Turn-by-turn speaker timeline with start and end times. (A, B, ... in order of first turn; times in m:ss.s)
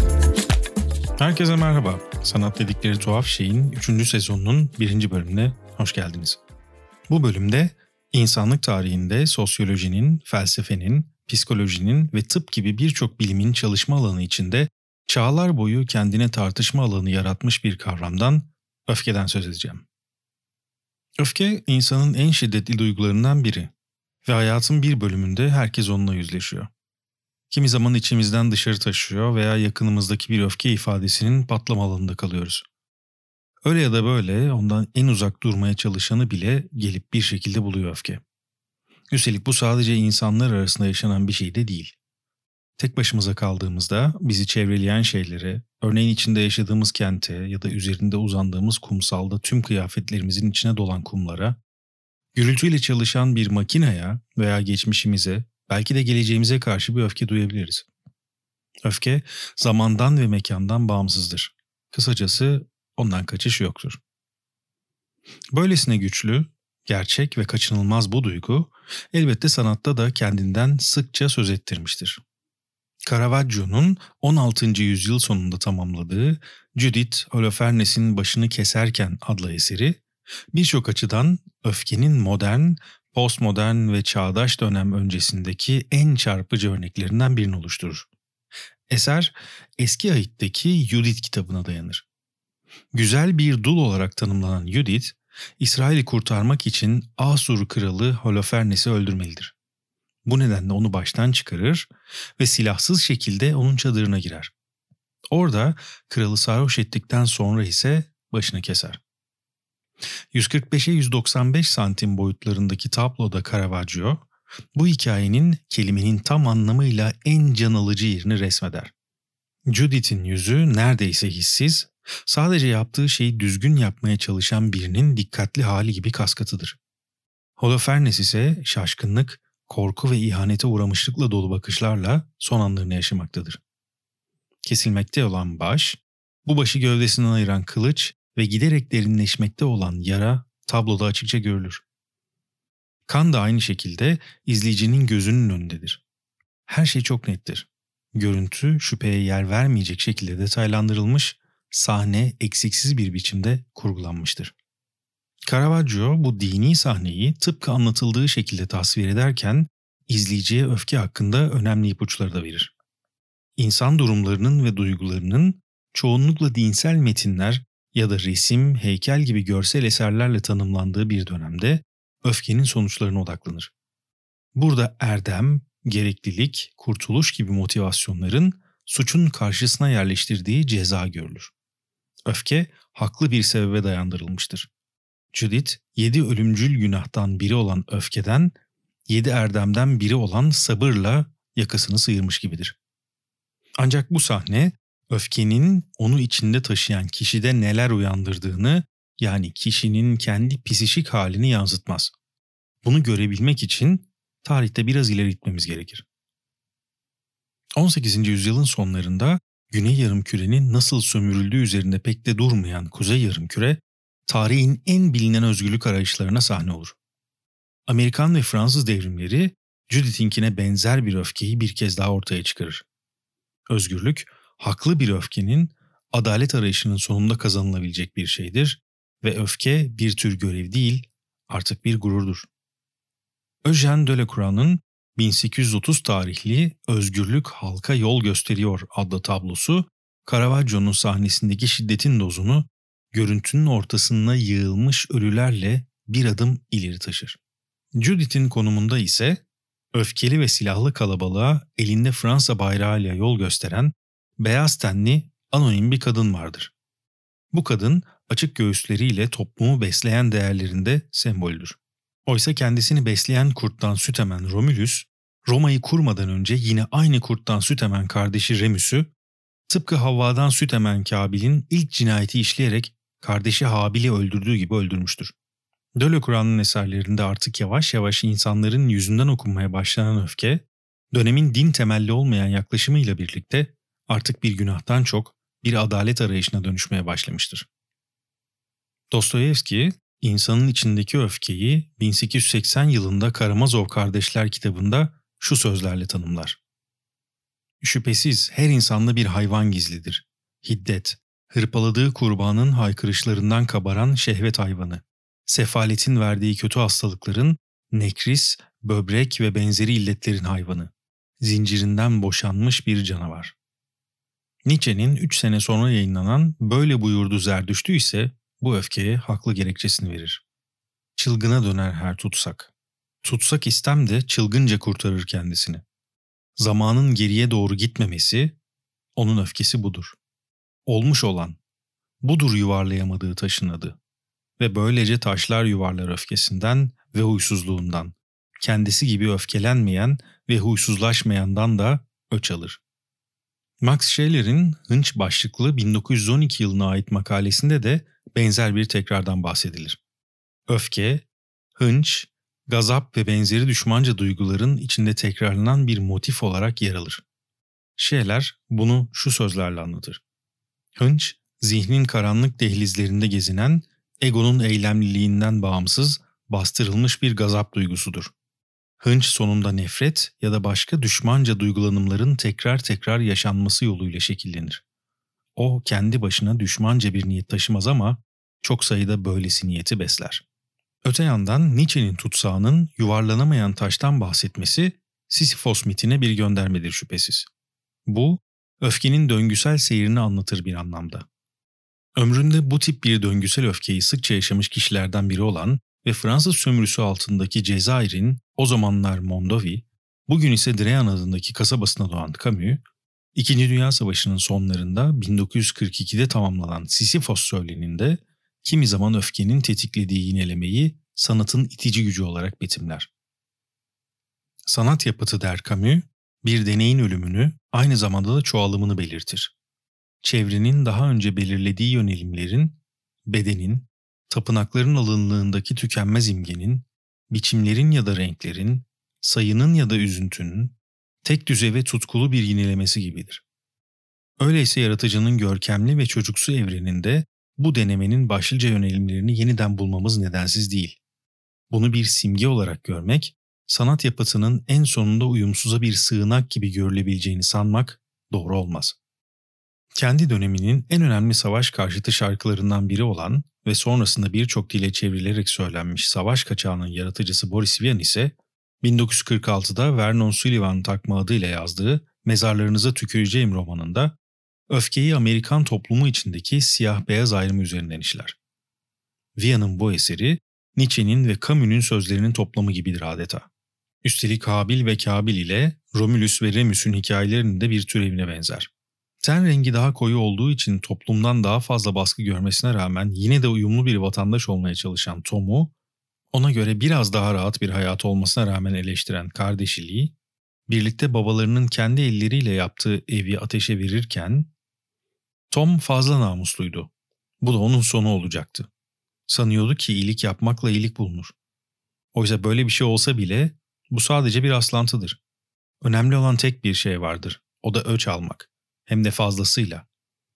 0:01.2-0:06.4 A
0:07.1-0:19.8 A
0:21.2-0:23.7 A
0:24.2-0:26.7 A
0:27.5-0:32.6 A
0:33.6-0:38.2 A
0:39.1-0:41.9 A
0:42.8-0:51.6 A
0:52.3-0:57.8 A
0:58.8-1:04.0 A
1:05.5-1:12.2 A
1:13.0-1:20.0 A
1:20.5-1:28.1 A
1:28.9-1:32.0 A
1:32.9-1:39.5 A
1:40.2-1:44.5 A
1:45.3-1:49.0 A
1:50.3-1:58.9 A
1:59.7-2:06.8 A
2:07.6-2:13.6 A
2:14.6-2:21.8 A
2:23.1-2:26.0 A
2:26.6-2:34.5 A
2:35.5-2:42.7 A
2:43.6-2:53.7 A
2:54.5-3:01.5 A
3:02.2-3:04.7 A
3:05.3-3:08.5 A
3:09.1-3:12.7 A
3:13.8-3:22.1 A
3:22.8-3:26.0 A
3:27.8-3:36.9 A
3:37.8-3:42.8 A
3:43.7-3:52.5 A
3:53.6-4:07.4 A
4:08.0-4:09.4 A
4:09.9-4:16.7 A
4:17.5-4:29.1 A
4:29.7-4:35.3 A
4:36.0-4:47.7 A
4:49.1-4:56.6 A
4:57.8-5:13.5 A
5:14.6-5:20.4 A
5:21.2-5:22.7 A
5:23.2-5:25.8 A
5:26.6-5:28.6 A
5:29.2-5:30.2 A
5:30.8-5:31.6 A
5:32.2-5:34.0 A
5:34.6-5:42.8 A
5:43.8-5:50.0 A
5:50.7-5:51.2 A
5:51.8-5:57.2 A
5:58.0-6:00.2 A
6:01.0-6:08.3 A
6:09.0-6:14.8 A
6:15.6-6:20.4 A
6:21.0-6:27.5 A
6:28.0-6:31.2 A
6:32.2-6:42.8 A
6:43.3-6:53.1 A
6:54.6-6:59.5 A
7:00.2-7:13.4 A
7:14.4-7:21.0 A
7:21.7-7:29.0 A
7:30.0-7:44.2 A
7:44.7-7:48.4 A
7:49.4-7:53.5 A
7:54.0-7:58.7 A
7:59.2-8:05.7 A
8:06.3-8:10.1 A
8:10.7-8:14.5 A
8:15.5-8:16.9 A
8:17.4-8:18.7 A
8:19.3-8:21.3 A
8:22.1-8:25.2 A
8:25.8-8:29.8 A